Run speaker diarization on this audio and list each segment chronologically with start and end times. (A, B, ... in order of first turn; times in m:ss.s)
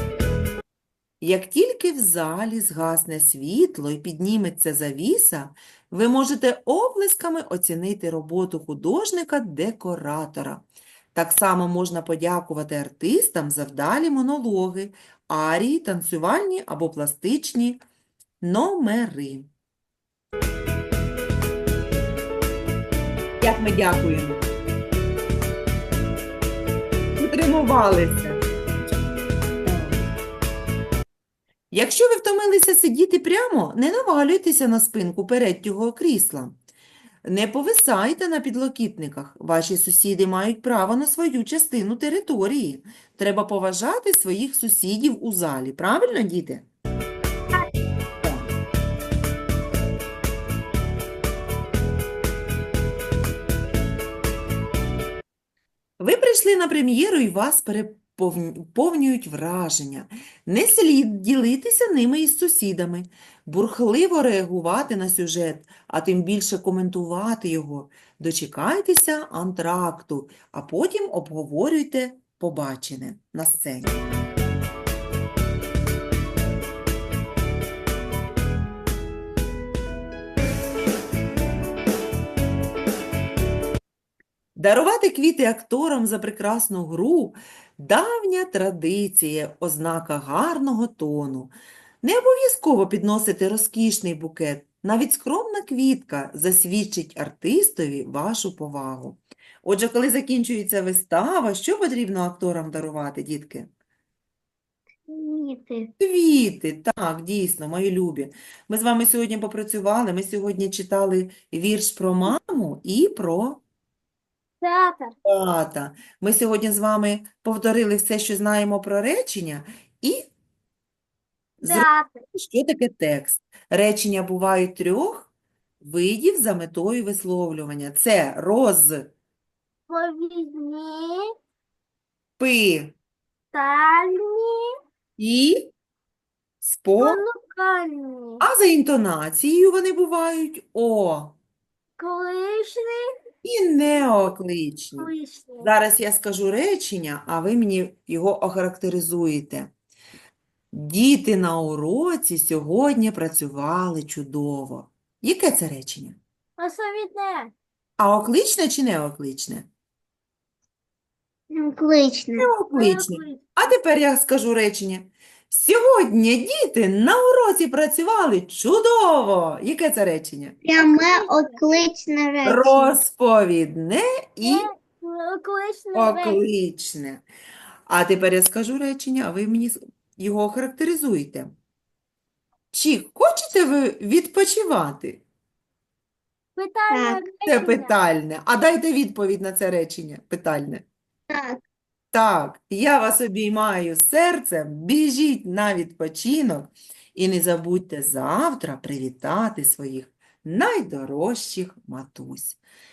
0:01.2-0:17.8 A
0:18.4-0:19.5 A
0:23.4-0:24.5 A
0:27.2-0:28.5 A
0:29.6-0:30.0 A
0:31.7-0:36.6 A
0:37.2-0:46.6 A
0:48.2-0:48.5 A
0:56.0-1:14.0 A
1:24.6-1:43.7 A
1:45.0-1:45.9 B
1:46.0-1:53.6 A
1:54.6-1:55.1 C
1:55.2-2:00.3 A
2:01.6-2:09.1 A
2:01.6-2:02.2 C
2:09.9-2:11.3 C
2:12.4-2:13.0 A
2:13.5-2:14.7 C
2:15.2-2:15.7 A
2:16.6-2:17.2 A
2:17.0-2:18.4 C
2:18.4-2:21.4 A
2:22.0-2:23.1 C
2:23.4-2:29.7 A
2:25.0-2:25.7 C
2:30.7-2:36.2 A
2:36.6-2:37.5 C
2:38.0-2:39.7 A
2:41.5-2:42.5 B
2:42.4-2:50.6 A
2:42.7-2:43.4 C
2:50.6-2:52.9 B
2:50.9-2:51.6 C
2:52.4-2:54.7 A
2:54.4-2:56.4 C
2:55.9-2:57.2 A
2:57.9-3:01.5 A
3:02.7-3:05.2 A
3:06.6-3:07.9 C
3:06.9-3:07.2 B
3:07.4-3:10.8 A
3:11.3-3:11.6 B
3:12.1-3:22.6 A